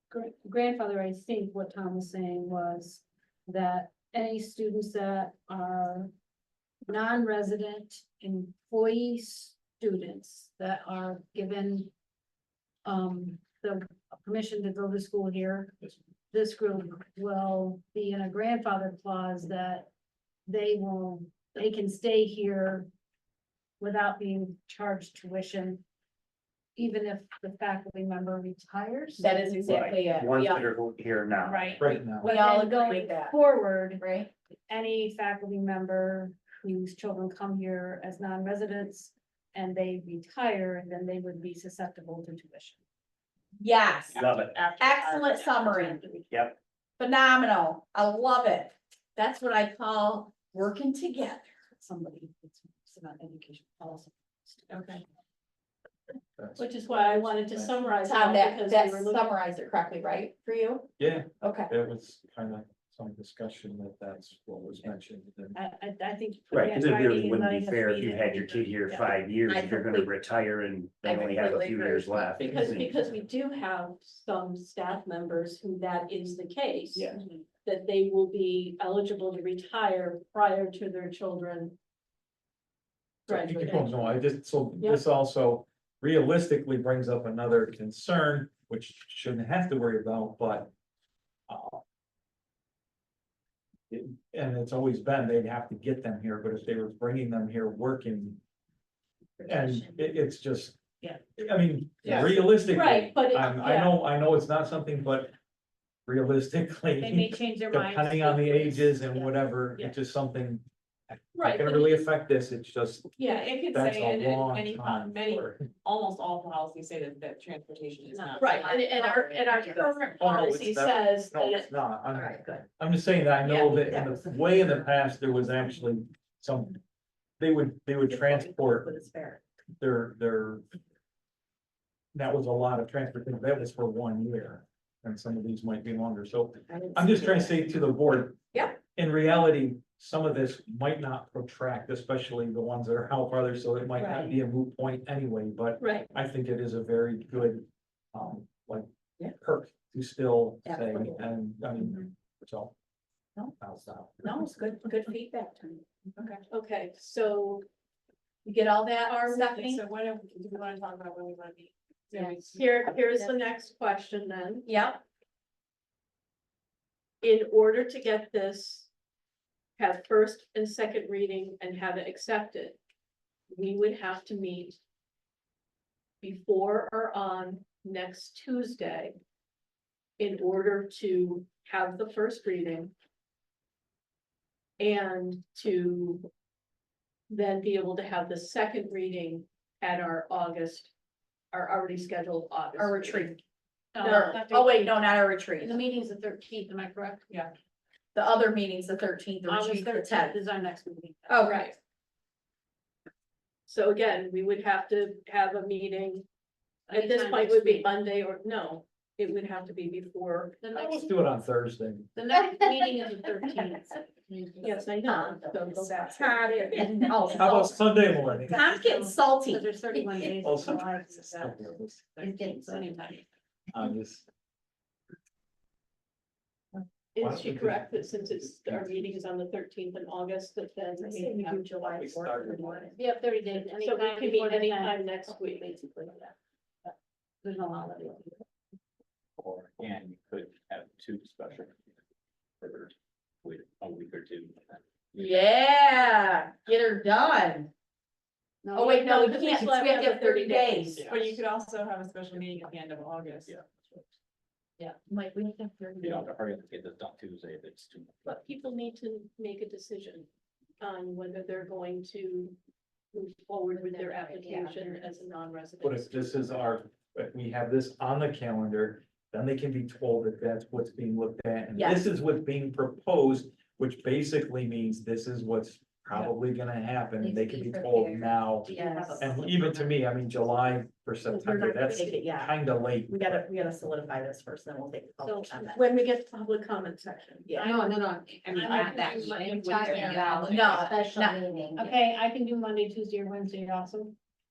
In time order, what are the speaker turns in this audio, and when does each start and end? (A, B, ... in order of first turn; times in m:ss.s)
0:00.1-0:06.1 A
0:06.9-0:11.9 A
0:12.8-0:19.9 A
0:20.5-0:22.9 A
0:23.8-0:25.8 A
0:26.8-0:29.4 A
0:29.2-0:30.7 B
0:29.6-0:31.9 C
0:31.4-0:34.0 A
0:31.8-0:32.3 D
0:32.1-0:34.3 B
0:34.7-0:42.8 A
0:43.6-0:44.2 B
0:44.1-0:46.4 E
0:44.1-0:44.6 C
0:44.8-0:46.0 B
0:46.3-0:46.6 C
0:47.0-0:51.6 B
0:51.7-0:55.0 A
0:54.7-0:55.0 E
0:56.4-0:57.8 D
0:56.6-0:59.3 F
0:58.0-1:01.7 B
1:01.0-1:05.6 D
1:05.5-1:09.1 A
1:06.5-1:13.0 C
1:08.9-1:10.1 B
1:11.0-1:12.4 B
1:12.4-1:17.1 F
1:17.6-1:21.8 F
1:23.3-1:24.0 F
1:23.3-1:30.7 D
1:31.5-1:31.8 D
1:33.9-1:38.4 D
1:39.4-1:40.0 B
1:39.5-1:40.8 D
1:41.4-1:45.4 D
1:42.0-1:44.0 F
1:46.1-1:53.1 D
1:47.0-1:49.4 A
1:51.4-1:52.1 F
1:53.2-1:58.8 E
1:53.2-1:53.5 F
1:53.7-1:55.7 D
1:58.4-2:01.7 F
1:58.6-1:59.8 B
2:00.2-2:06.8 D
2:02.1-2:02.6 B
2:03.4-2:03.8 F
2:03.8-2:04.7 B
2:07.4-2:08.9 D
2:08.1-2:09.4 B
2:09.8-2:10.6 D
2:12.1-2:32.7 D
2:16.7-2:17.7 B
2:24.0-2:24.4 B
2:25.8-2:26.1 F
2:30.7-2:31.3 B
2:33.6-2:34.2 D
2:34.2-2:35.8 B
2:36.2-2:36.4 E
2:36.5-2:37.6 F
2:38.4-2:39.8 B
2:39.0-2:39.5 F
2:39.5-2:42.6 E
2:42.6-2:44.7 F
2:44.7-2:45.0 B
2:47.2-2:48.9 F
2:49.8-2:52.8 F
2:53.5-2:54.8 F
2:56.2-2:59.2 F
3:00.2-3:02.9 F
3:04.8-3:06.3 F
3:07.3-3:10.9 F
3:11.5-3:13.3 F
3:12.8-3:13.4 B
3:13.9-3:17.5 A
3:14.0-3:14.4 F
3:14.0-3:15.8 B
3:18.1-3:20.4 B
3:19.5-3:21.8 A
3:21.3-3:21.6 B
3:21.4-3:21.8 F
3:23.7-3:26.3 F
3:26.9-3:27.9 A
3:26.9-3:30.7 F
3:30.6-3:31.2 A
3:30.8-3:32.1 D
3:32.2-3:34.9 A
3:34.6-3:37.1 F
3:35.0-3:35.4 B
3:35.4-3:36.3 A
3:36.0-3:37.8 B
3:36.8-3:43.2 A
3:37.3-3:38.7 D
3:38.4-3:40.3 B
3:40.4-3:42.1 D
3:42.2-3:43.0 B
3:43.7-3:44.3 D
3:47.2-3:51.7 F
3:47.2-3:47.8 D
3:48.7-3:49.0 D
3:51.0-3:53.0 B
3:52.0-3:52.9 D
3:52.9-3:56.3 A
3:53.8-3:55.7 F
3:56.8-3:58.4 A
3:59.4-4:01.8 G
4:02.6-4:02.9 G
4:03.4-4:05.3 G
4:05.2-4:07.7 B
4:08.6-4:09.4 A
4:08.7-4:11.1 B
4:09.0-4:11.0 F
4:11.1-4:13.6 E
4:13.5-4:14.0 G
4:14.8-4:16.3 B
4:16.0-4:18.3 G
4:18.2-4:20.3 F
4:20.8-4:22.6 F
4:23.1-4:26.6 F
4:23.9-4:24.7 B
4:24.4-4:25.0 A
4:25.8-4:43.4 D
4:31.8-4:32.0 B
4:37.2-4:39.9 A
4:38.6-4:39.6 B
4:41.3-4:45.8 B
4:45.2-4:45.6 A
4:45.6-4:47.6 F
4:47.5-4:52.0 B
4:47.5-4:50.9 A
4:48.4-4:51.0 E
4:49.1-4:50.7 F
4:51.7-4:54.1 A